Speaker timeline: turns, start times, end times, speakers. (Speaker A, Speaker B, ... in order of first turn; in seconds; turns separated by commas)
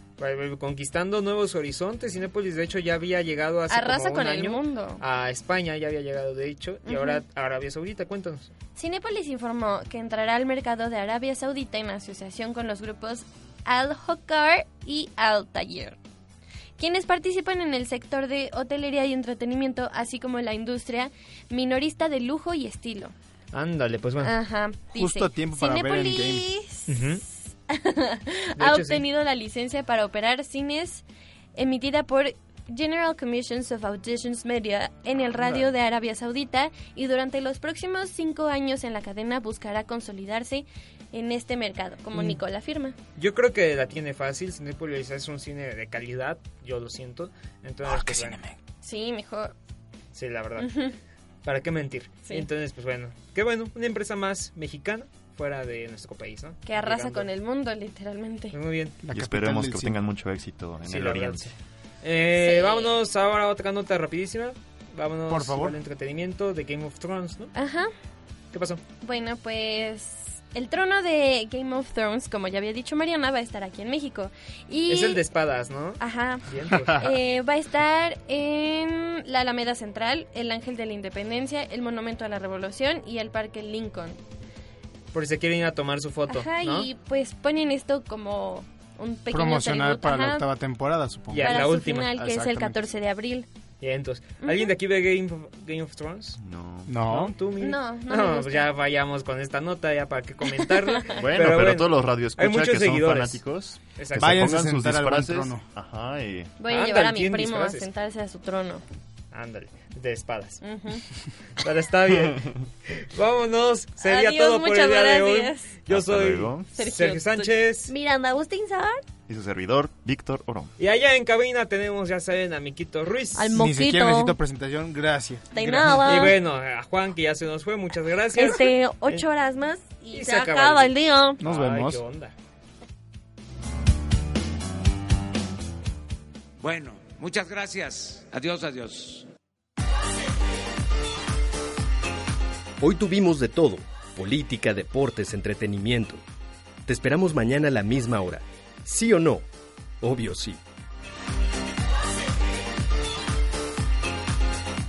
Speaker A: 0.2-8.5, Speaker B: 3.7-5.0, Speaker B: 6.8-7.2, Speaker B: 8.8-16.0, Speaker B: 16.8-23.1, Speaker A: 23.5-24.3, Speaker B: 24.2-31.0, Speaker C: 24.9-26.5, Speaker A: 26.9-27.2, Speaker A: 28.6-29.0, Speaker B: 31.6-42.9, Speaker A: 35.4-35.7, Speaker A: 42.1-42.4, Speaker A: 43.2-48.4, Speaker C: 47.9-48.5, Speaker B: 48.8-49.5, Speaker A: 50.1-50.7, Speaker B: 50.6-50.9, Speaker A: 51.4-57.3, Speaker B: 56.6-58.6, Speaker A: 58.5-58.9, Speaker C: 59.0-60.0, Speaker D: 59.1-61.5, Speaker A: 60.8-67.5, Speaker B: 62.4-63.0, Speaker C: 65.3-65.8, Speaker B: 67.5-67.9, Speaker A: 68.5-68.8, Speaker B: 69.0-75.2, Speaker A: 74.9-77.0, Speaker B: 76.0-84.2, Speaker C: 76.7-77.1, Speaker A: 85.1-86.9, Speaker B: 86.3-90.5, Speaker C: 89.3-92.8, Speaker A: 91.3-92.1, Speaker B: 91.4-93.5, Speaker A: 93.8-96.4, Speaker B: 94.4-94.7, Speaker D: 96.4-96.9, Speaker C: 96.9-97.4, Speaker A: 97.0-103.4, Speaker B: 97.6-98.7, Speaker D: 101.2-106.5, Speaker A: 104.0-104.6, Speaker C: 104.2-105.6, Speaker B: 106.6-108.8, Speaker A: 106.7-107.9, Speaker A: 109.3-110.6, Speaker B: 110.6-111.0, Speaker A: 111.6-117.9, Speaker B: 114.0-115.8, Speaker D: 115.9-116.7, Speaker B: 116.7-119.0, Speaker D: 119.3-120.7, Speaker A: 120.8-123.6, Speaker B: 123.3-124.4, Speaker C: 123.5-126.3, Speaker B: 125.5-126.4, Speaker A: 126.0-129.2, Speaker B: 128.3-131.4, Speaker A: 130.1-132.3, Speaker C: 131.4-132.0, Speaker E: 136.6-139.3, Speaker F: 142.8-146.2, Speaker F: 146.9-149.5, Speaker F: 150.0-150.6